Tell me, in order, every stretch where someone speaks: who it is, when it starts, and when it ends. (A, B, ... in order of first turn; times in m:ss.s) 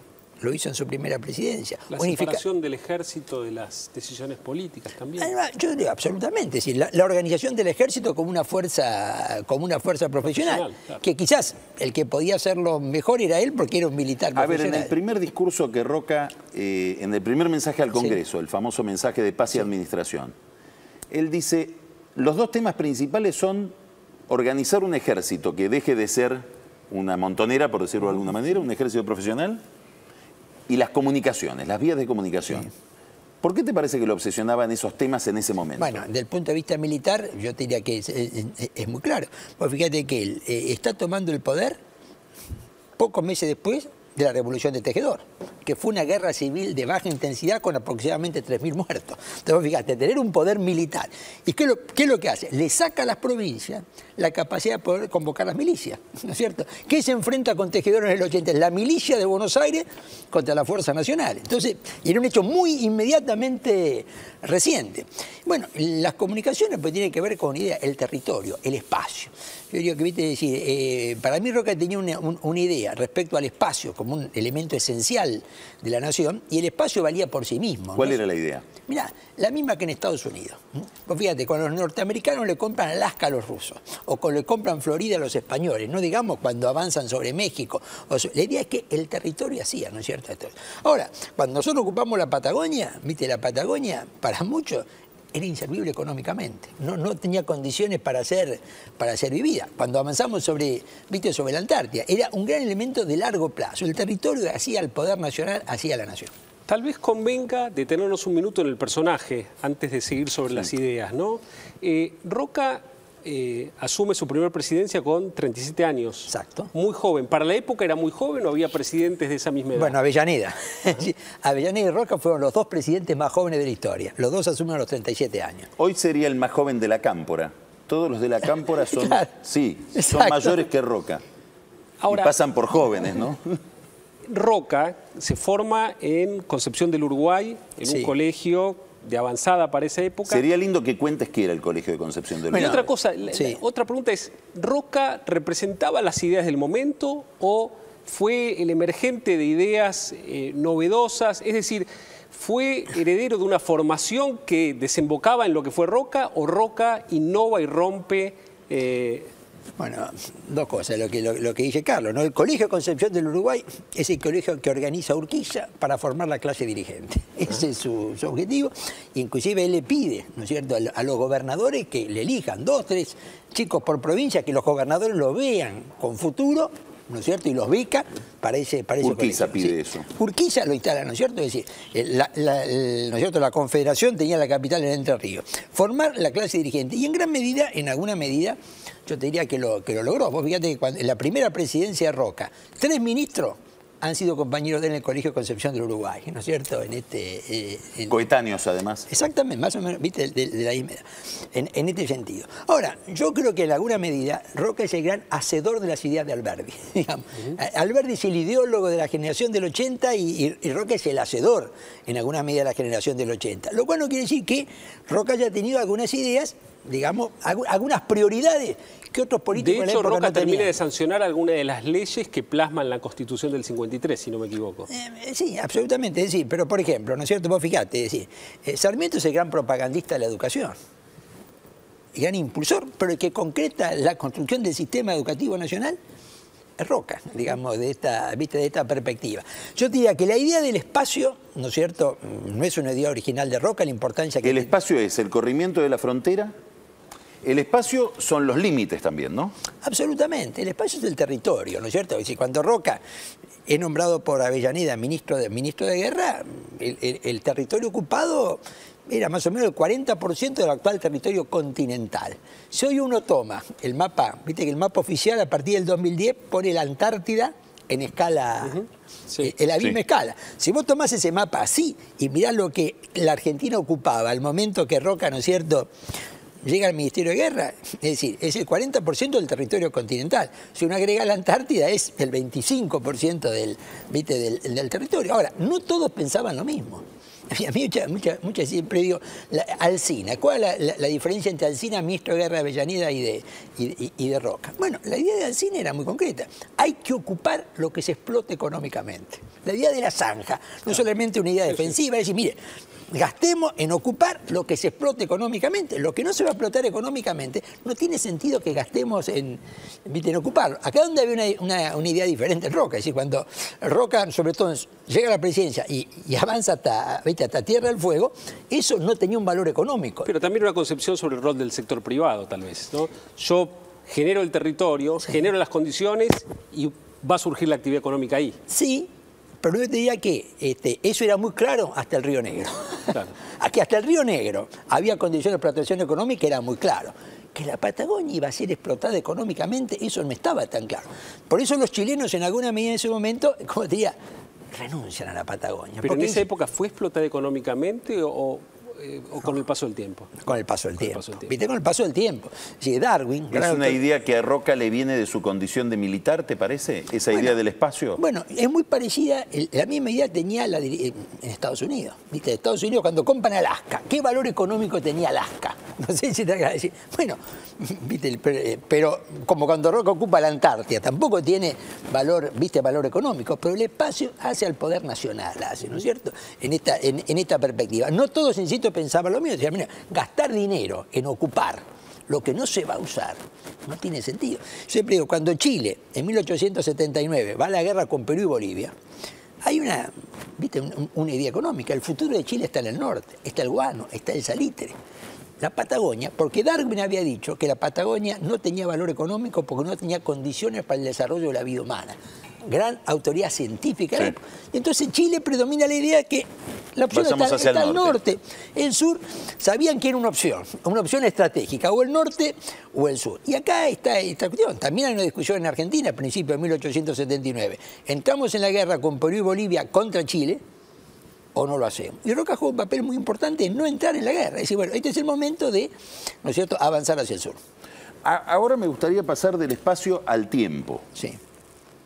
0:00.4-0:02.4 A
0:01.9-0:05.3 B
0:05.2-0:14.9 A
0:10.3-0:11.0 B
0:14.3-0:20.3 C
0:21.1-0:23.7 C
0:24.3-0:29.6 C
0:30.7-0:32.7 C
0:33.4-0:36.0 C
0:35.8-0:41.8 A
0:43.0-1:18.2 A
1:18.0-1:18.7 C
1:18.9-1:46.3 A
1:46.7-2:00.0 B
1:56.3-1:56.7 A
1:59.7-2:05.7 A
2:05.8-2:11.2 C
2:08.8-2:09.2 A
2:09.9-2:10.6 A
2:12.0-2:12.3 B
2:12.1-2:13.6 C
2:14.3-2:20.4 B
2:17.8-2:18.1 A
2:20.2-2:22.9 C
2:22.5-2:23.6 A
2:22.5-2:39.3 B
2:39.8-3:18.2 A
2:59.0-3:00.1 C
3:18.1-3:19.1 C
3:19.1-3:40.7 A
3:39.5-3:44.9 B
3:44.9-3:50.7 A
3:52.1-3:56.0 A
3:56.8-4:04.7 A
4:04.4-4:06.5 C
4:07.4-4:09.5 C
4:09.8-4:13.0 A
4:13.7-4:28.8 A
4:28.7-4:29.5 B
4:29.4-4:35.9 A
4:36.6-5:02.6 A
5:03.1-5:20.3 A
5:20.2-5:28.6 B
5:28.7-5:29.1 A
5:29.6-5:44.2 A
5:44.7-5:46.4 A
5:46.0-5:50.4 B
5:50.4-5:54.0 A
5:51.0-5:51.5 B
5:53.5-5:58.2 C
5:58.2-6:28.9 A
6:29.6-6:34.9 A
6:35.6-7:00.6 A
6:47.1-6:48.2 C
7:01.5-7:05.9 A
7:06.4-7:07.6 A
7:08.2-7:11.0 C